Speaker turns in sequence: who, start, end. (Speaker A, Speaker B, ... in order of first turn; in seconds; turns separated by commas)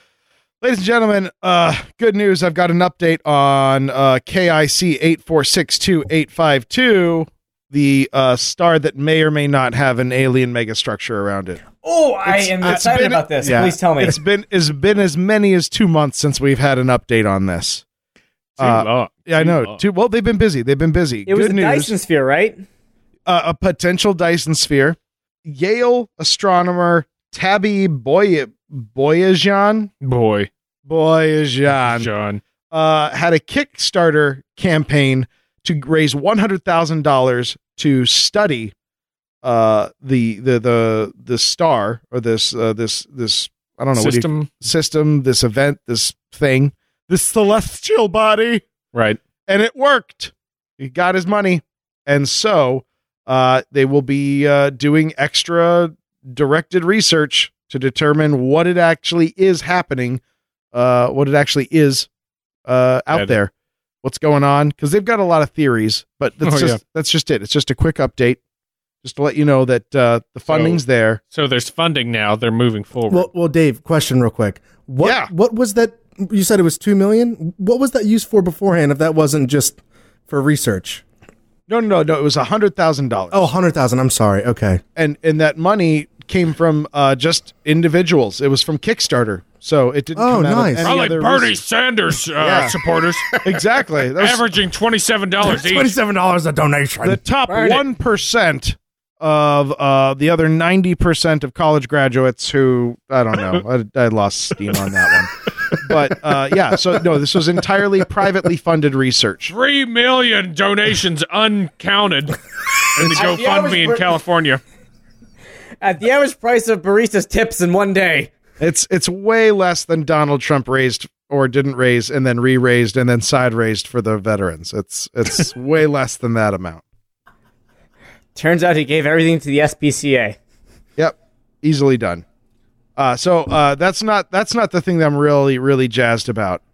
Speaker A: 0.6-11.6, Speaker B: 11.7-14.2, Speaker A: 12.2-17.8, Speaker C: 18.6-19.9, Speaker A: 18.6-21.9, Speaker B: 21.2-22.6, Speaker A: 23.2-29.9, Speaker C: 30.0-30.5, Speaker A: 30.9-32.1, Speaker C: 31.8-32.4, Speaker A: 32.7-38.7, Speaker A: 39.4-48.6, Speaker C: 43.9-44.6, Speaker C: 48.9-49.2, Speaker A: 49.5-60.2, Speaker A: 60.7-62.1, Speaker A: 62.6-63.5, Speaker A: 64.0-68.4, Speaker C: 66.4-66.8, Speaker A: 69.0-71.2, Speaker C: 70.5-73.3, Speaker D: 73.1-81.0, Speaker A: 75.0-75.3, Speaker A: 81.7-83.5, Speaker D: 83.3-84.8, Speaker A: 85.0-91.6, Speaker D: 90.2-90.9, Speaker C: 90.8-93.3, Speaker A: 92.4-92.7, Speaker A: 93.4-94.4, Speaker C: 94.2-95.9, Speaker D: 95.4-97.2, Speaker A: 97.0-109.5, Speaker B: 97.5-97.8, Speaker C: 109.5-112.4, Speaker C: 112.9-114.6, Speaker A: 113.0-113.4, Speaker B: 113.1-114.1, Speaker B: 115.8-118.3, Speaker A: 118.6-126.8, Speaker B: 128.3-130.4, Speaker A: 131.0-132.2, Speaker A: 133.0-136.6